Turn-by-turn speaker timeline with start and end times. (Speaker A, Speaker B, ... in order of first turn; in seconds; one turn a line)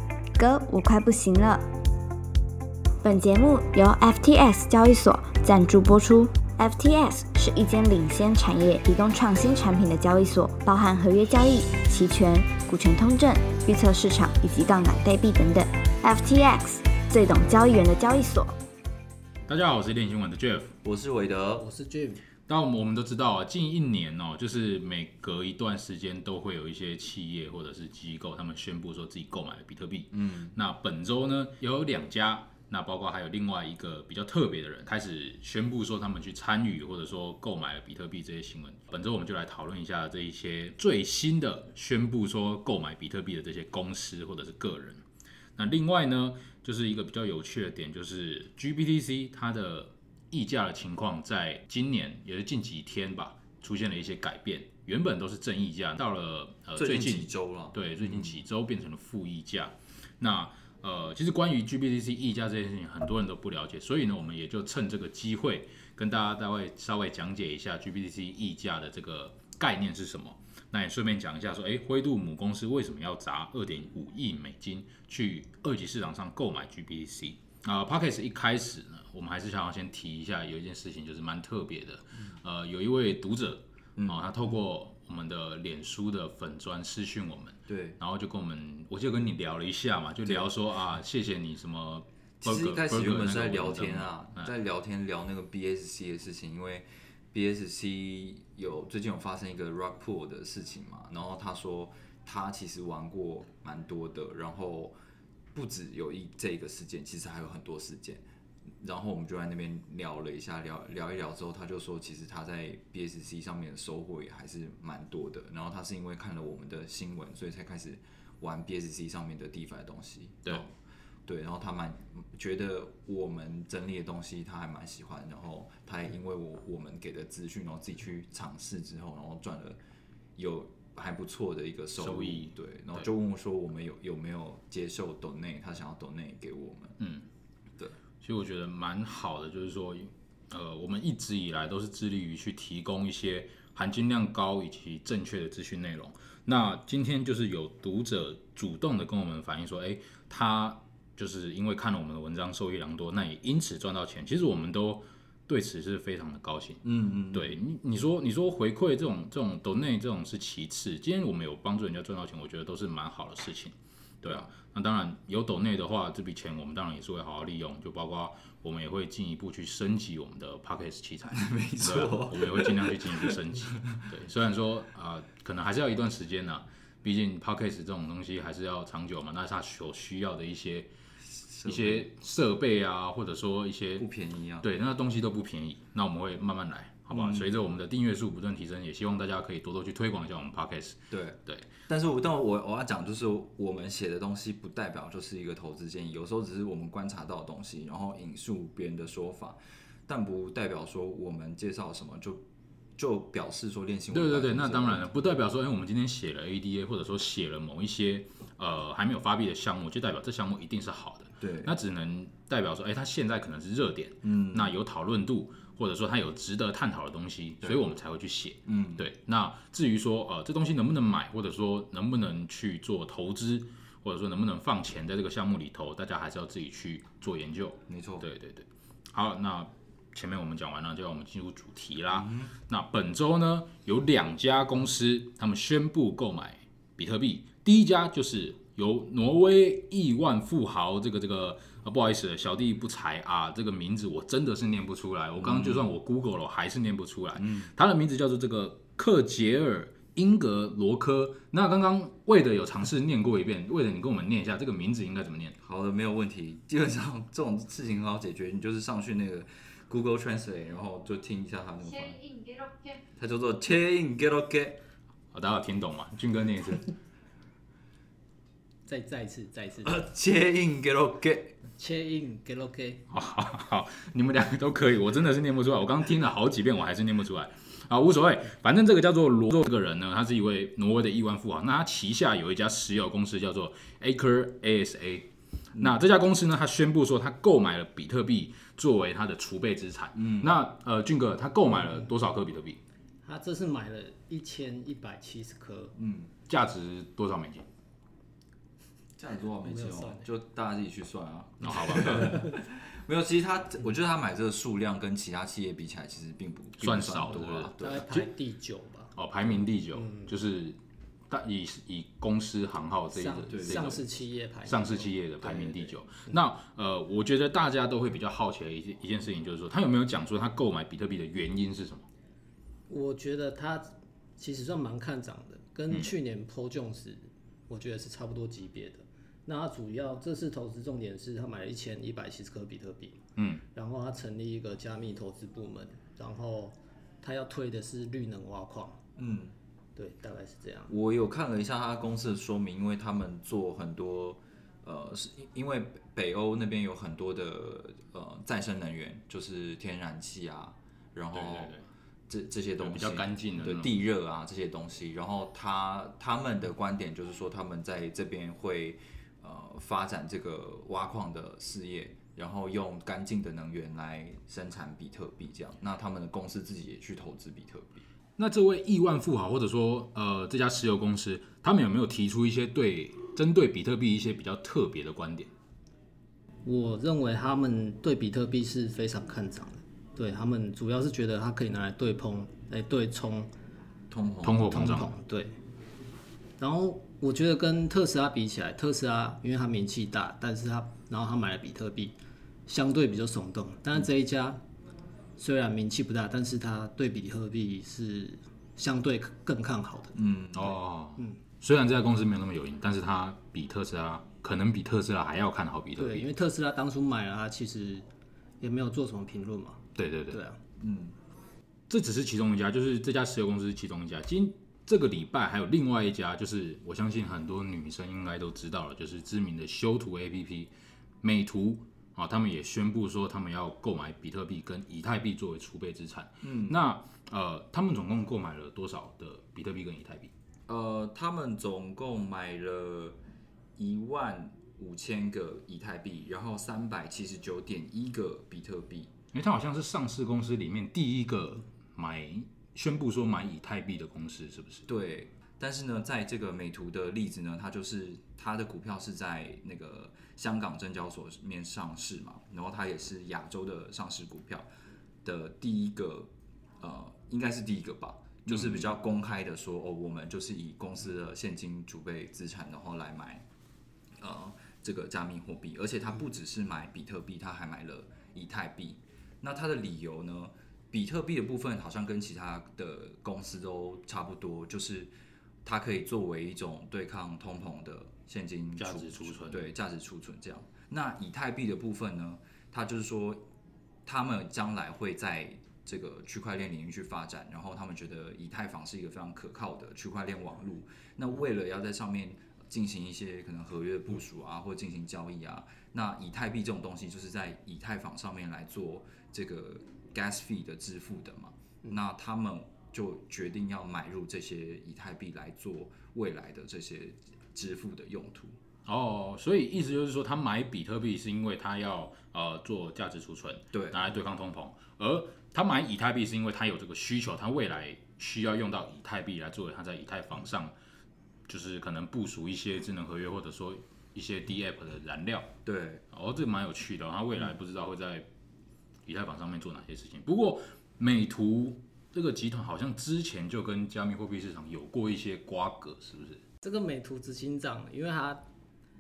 Speaker A: 0.4-1.6
Speaker A: 3.0-18.5
Speaker B: 19.5-20.8
Speaker C: 20.8-21.6
Speaker D: 21.6-22.2
Speaker B: 22.5-45.0
Speaker C: 30.1-30.5
Speaker B: 45.6-94.5
Speaker C: 56.8-58.4
Speaker C: 87.7-88.0
Speaker C: 92.4-104.9
Speaker C: 105.5-108.2
Speaker C: 108.8-120.7
Speaker C: 121.3-129.8
Speaker C: 130.4-137.0
Speaker B: 132.0-133.1
Speaker B: 137.0-137.2
Speaker B: 138.2-180.9
Speaker C: 156.8-157.6
Speaker C: 171.3-174.1
Speaker C: 181.3-182.1
Speaker B: 181.7-184.1
Speaker C: 184.0-184.7
Speaker B: 184.6-191.7
Speaker C: 187.1-187.6
Speaker C: 191.1-202.4
Speaker C: 203.0-205.1
Speaker B: 204.1-255.6
Speaker C: 211.4-211.8
Speaker C: 214.2-214.8
Speaker C: 217.6-217.9
Speaker C: 218.7-219.1
Speaker C: 227.9-228.3
Speaker C: 232.1-232.6
Speaker C: 245.4-245.9
Speaker C: 247.4-247.7
Speaker C: 255.6-262.6
Speaker C: 263.2-264.8
Speaker B: 265.3-266.9
Speaker D: 268.9-270.0
Speaker C: 269.8-271.6
Speaker D: 271.8-273.1
Speaker B: 273.1-292.8
Speaker C: 290.1-290.5
Speaker D: 293.2-295.9
Speaker C: 296.0-296.3
Speaker B: 296.5-297.7
Speaker C: 299.2-308.1
Speaker D: 299.7-300.3
Speaker B: 301.6-302.4
Speaker B: 306.8-308.3
Speaker D: 307.8-309.1
Speaker B: 309.1-310.8
Speaker D: 309.9-310.3
Speaker B: 311.3-314.1
Speaker D: 313.1-316.3
Speaker C: 313.5-314.0
Speaker B: 314.6-322.1
Speaker D: 322.9-333.2
Speaker B: 333.4-333.6
Speaker D: 333.7-339.0
Speaker C: 339.2-339.6
Speaker D: 340.0-340.9
Speaker C: 340.9-368.1
Speaker B: 351.3-351.9
Speaker B: 352.8-353.9
Speaker B: 368.4-375.5
Speaker D: 376.6-383.5
Speaker C: 384.1-384.8
Speaker B: 384.4-385.1
Speaker D: 384.6-385.5
Speaker D: 386.6-392.1
Speaker D: 392.7-394.6
Speaker D: 395.4-400.2
Speaker C: 400.1-400.8
Speaker B: 400.5-406.3
Speaker D: 406.0-408.1
Speaker D: 408.6-410.6
Speaker B: 410.0-410.4
Speaker C: 410.8-411.1
Speaker B: 411.9-420.7
Speaker B: 421.2-430.3
Speaker C: 426.4-426.8
Speaker C: 430.7-433.2
Speaker C: 433.8-439.1
Speaker B: 439.3-444.9
Speaker C: 444.9-454.7
Speaker C: 455.2-456.3
Speaker C: 456.8-463.4
Speaker B: 458.5-458.9
Speaker C: 464.2-475.1
Speaker C: 475.6-483.4
Speaker B: 478.8-479.7
Speaker C: 484.1-508.6
Speaker B: 508.9-520.7
Speaker C: 513.7-514.0
Speaker B: 521.5-525.5
Speaker C: 525.6-526.0
Speaker B: 526.1-528.3
Speaker B: 529.1-536.4
Speaker D: 536.6-538.5